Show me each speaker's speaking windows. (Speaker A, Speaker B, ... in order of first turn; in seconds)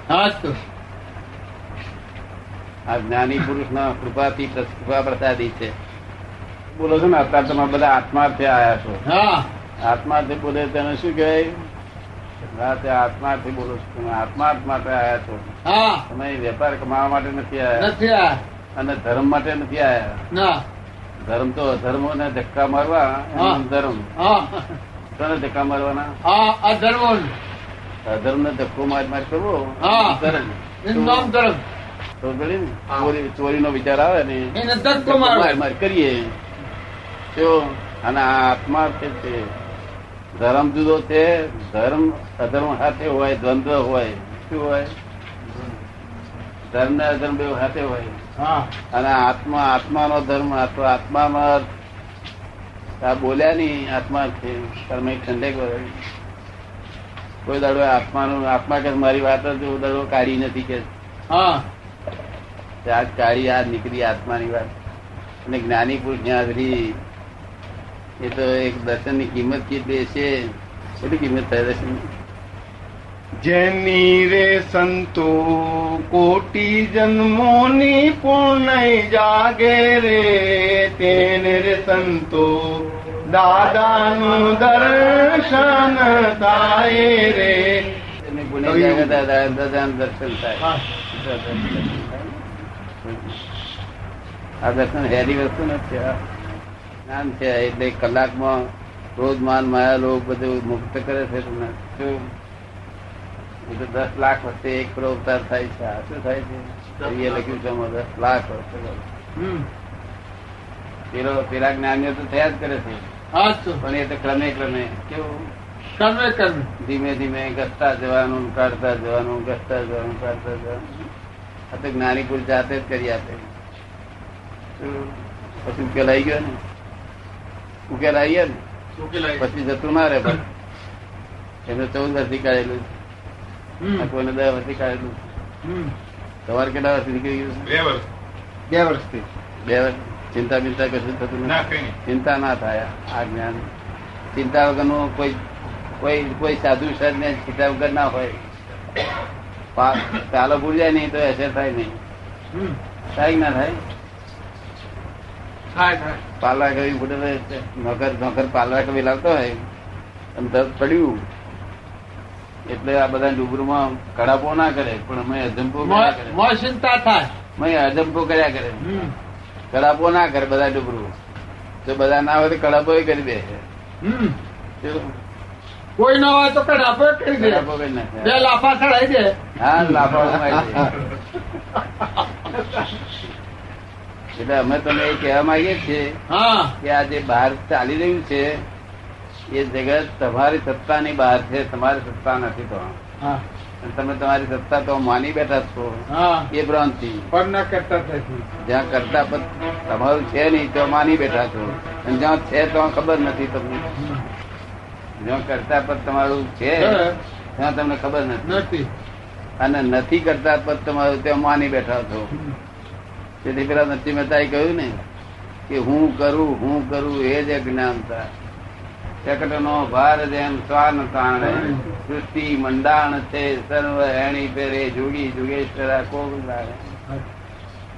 Speaker A: 0.1-0.6, 9.1-9.5, 15.7-16.1, 17.8-18.4, 20.3-20.6, 23.4-23.6, 24.2-24.5, 26.2-27.3, 29.8-31.6, 34.5-35.6, 48.4-48.7, 61.3-61.7, 90.6-90.9, 109.4-109.7, 113.3-113.8, 116.0-116.7, 133.8-134.1, 135.6-135.9, 165.8-167.3, 168.8-169.1, 174.0-174.4, 176.0-177.7, 178.2-179.4, 186.3-186.8, 196.1-196.5, 197.3-198.4, 204.0-204.2, 206.8-207.2, 208.5-208.9, 221.4-221.8
Speaker B: 2.9-5.7, 6.7-9.0, 9.8-11.5, 12.5-15.5, 16.1-17.9, 18.8-20.2, 21.3-24.2, 25.1-26.1, 28.1-31.3, 32.2-36.4, 37.3-39.5, 40.4-44.9, 46.7-48.2, 48.9-51.7, 53.0-56.0, 57.5-60.9, 62.9-64.7, 65.5-67.0, 68.2-70.3, 71.0-72.1, 88.2-92.4, 93.0-93.4, 94.6-96.2, 97.1-102.2, 103.7-109.0, 111.1-113.1, 113.8-115.5, 116.8-121.1, 121.7-123.5, 124.8-126.6, 127.9-128.6, 129.4-130.4, 131.7-132.9, 134.0-135.3, 136.5-137.8, 139.7-143.6, 144.3-145.4, 146.0-148.4, 149.8-152.0, 153.2-153.8, 156.4-159.6, 160.4-161.2, 162.7-166.4, 167.6-169.0, 169.7-171.1, 171.8-173.6, 174.8-175.1, 177.4-178.5, 179.6-181.0, 184.4-186.2, 186.8-188.6, 189.5-193.0, 193.8-197.3, 198.6-203.9, 205.2-208.6, 209.6-212.3, 213.4-215.0, 215.7-218.3, 219.2-226.9
Speaker C: 73.4-88.0, 88.7-89.2, 138.7-139.3
Speaker D: 107.0-107.4, 129.0-129.4, 137.7-138.1, 141.5-141.9, 155.7-156.2